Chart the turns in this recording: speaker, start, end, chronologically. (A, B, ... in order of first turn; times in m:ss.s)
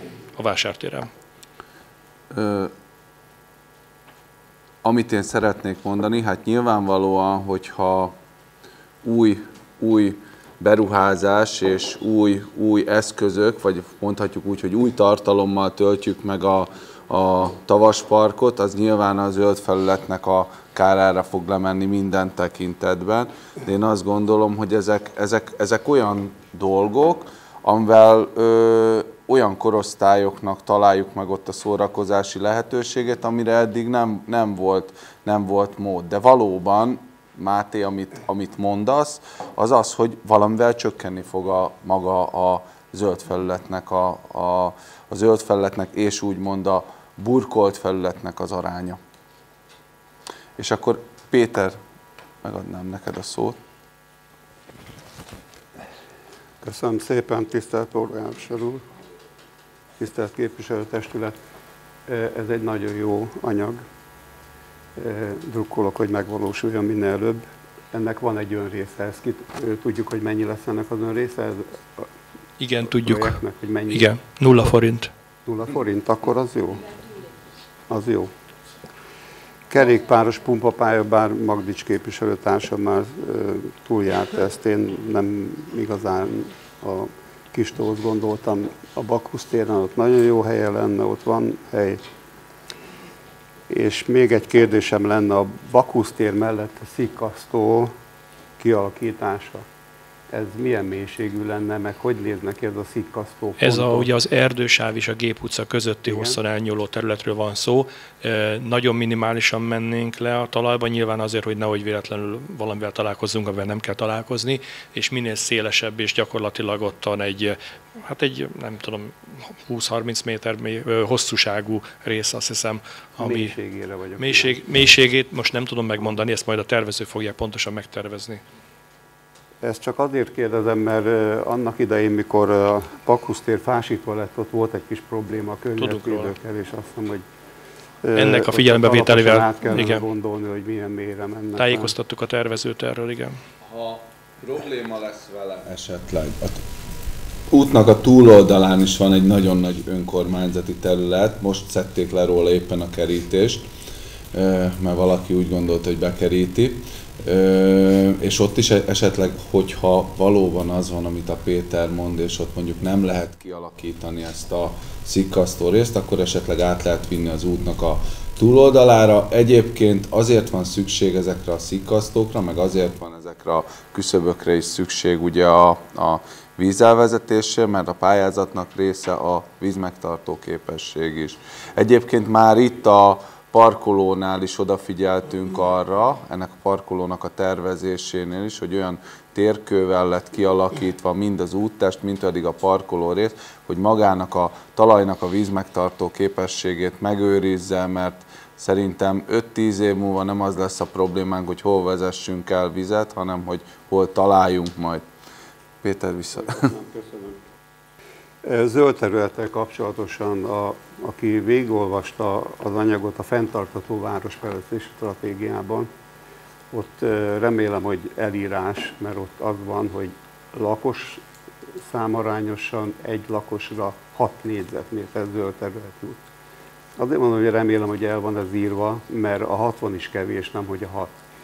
0:00.4-0:01.1 A
0:02.3-0:02.7 B
0:04.8-0:08.1 B
0:09.0-0:49.0 B
0:50.6-0:51.8 B
0:52.4-0:53.6 B
0:56.6-0:58.8 C
1:00.0-1:01.4 C
1:02.1-1:03.8 C
1:05.0-1:12.0 C
1:12.6-1:15.1 A
1:12.8-1:14.7 C
1:15.5-1:16.9 C
1:17.9-1:18.3 C
1:19.7-1:32.0 C
1:33.7-1:37.9 C
1:38.6-1:39.6 C
1:40.3-1:44.1 C
1:43.6-2:03.6 A
1:46.0-1:46.4 C
2:03.2-2:04.6 C
2:04.2-2:08.4 A
2:09.6-2:17.3 C
2:15.8-2:16.4 A
2:18.0-2:22.0 C
2:18.2-2:20.0 A
2:21.6-2:23.4 A
2:23.6-2:26.6 B
2:27.5-2:33.7 B
2:34.3-3:25.1 B
3:25.8-3:26.7 B
3:26.4-3:27.4 C
3:28.4-3:35.9 C
3:36.7-3:41.2 C
3:41.9-3:46.2 C
3:47.0-3:51.2 C